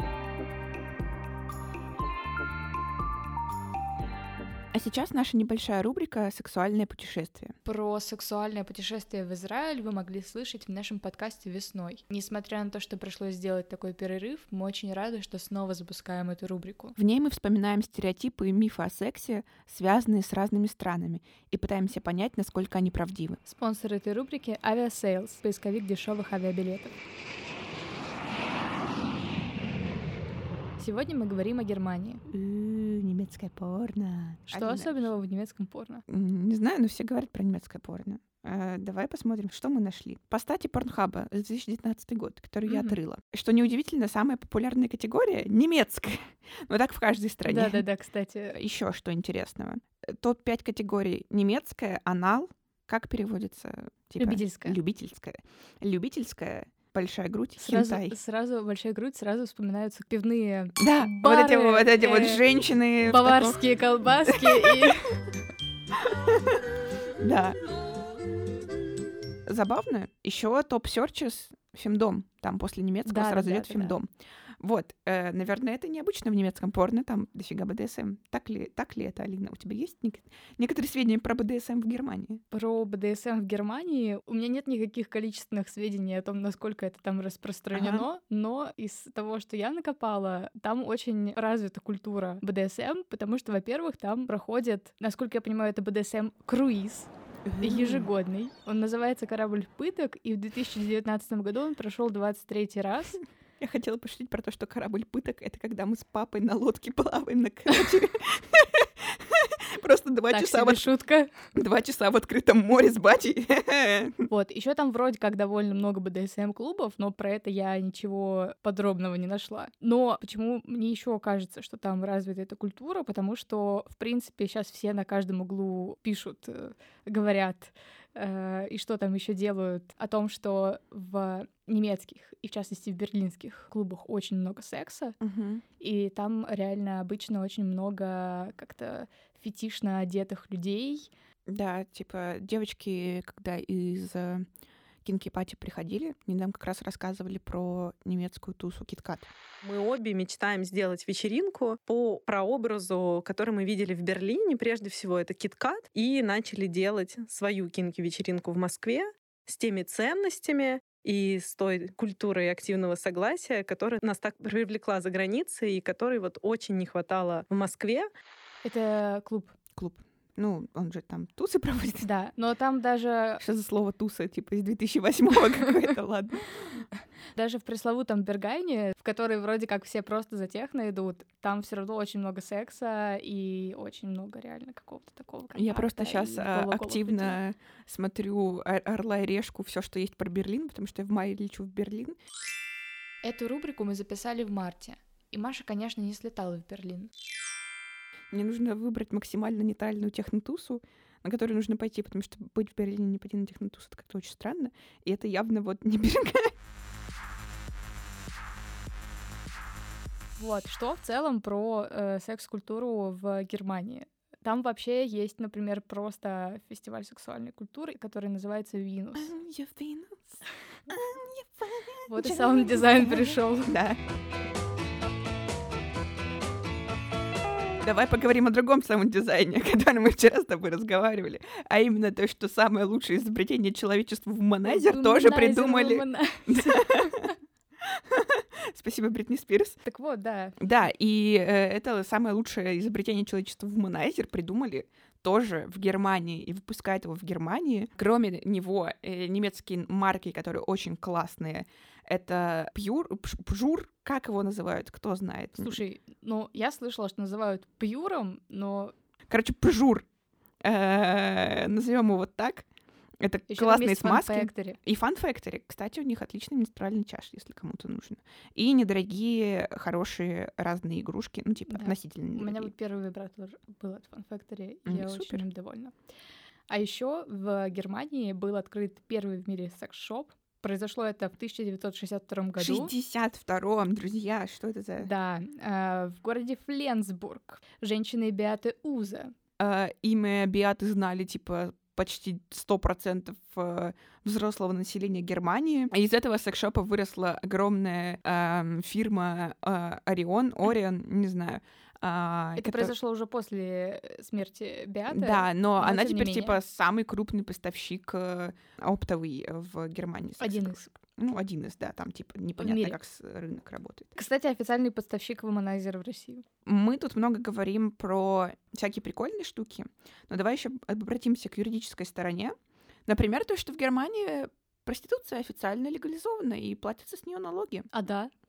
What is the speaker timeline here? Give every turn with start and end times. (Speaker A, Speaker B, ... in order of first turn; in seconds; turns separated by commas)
Speaker A: 4.7-7.5, Speaker B: 7.7-16.9, Speaker A: 16.9-23.4, Speaker B: 23.4-27.0, Speaker B: 30.8-32.2, Speaker A: 32.3-35.1, Speaker B: 34.5-36.0, Speaker A: 36.1-47.8, Speaker B: 42.6-43.0, Speaker B: 47.4-48.6, Speaker A: 48.5-58.1, Speaker B: 54.2-54.8, Speaker B: 57.6-62.4, Speaker A: 60.8-63.6, Speaker B: 63.0-65.3, Speaker A: 64.3-64.9, Speaker A: 66.0-66.6, Speaker A: 67.2-67.6, Speaker A: 69.5-74.1, Speaker B: 73.0-74.0, Speaker A: 74.6-82.4, Speaker B: 82.5-103.2, Speaker A: 87.7-88.1, Speaker A: 97.5-98.1, Speaker A: 103.6-110.9, Speaker B: 110.3-111.3, Speaker A: 111.5-114.3, Speaker B: 114.3-135.2, Speaker A: 135.2-135.6, Speaker B: 135.8-141.1, Speaker A: 141.5-144.5, Speaker A: 145.0-149.3, Speaker C: 149.6-168.1, Speaker B: 168.6-169.5, Speaker A: 169.8-172.1, Speaker B: 172.0-173.4, Speaker A: 173.4-176.9, Speaker B: 177.3-187.3, Speaker A: 185.6-192.2, Speaker B: 193.2-197.1, Speaker A: 198.3-206.5, Speaker B: 210.4-219.3, Speaker A: 219.1-220.4, Speaker A: 220.9-224.0, Speaker B: 222.1-223.8, Speaker A: 227.8-237.2, Speaker B: 234.6-237.3, Speaker A: 237.8-239.8, Speaker B: 239.8-240.5, Speaker A: 240.6-255.8, Speaker B: 255.6-258.9, Speaker A: 259.3-260.1, Speaker A: 260.6-262.7, Speaker A: 263.2-272.7, Speaker B: 263.5-264.8, Speaker B: 271.7-275.9, Speaker A: 274.9-275.4, Speaker B: 276.7-282.9, Speaker A: 282.6-285.1, Speaker B: 285.0-289.3, Speaker A: 289.6-302.9, Speaker B: 302.6-306.6, Speaker A: 305.1-314.1, Speaker B: 310.4-310.9, Speaker B: 312.6-313.0, Speaker B: 314.2-316.4, Speaker A: 316.6-322.5, Speaker A: 323.1-327.9, Speaker B: 327.9-328.3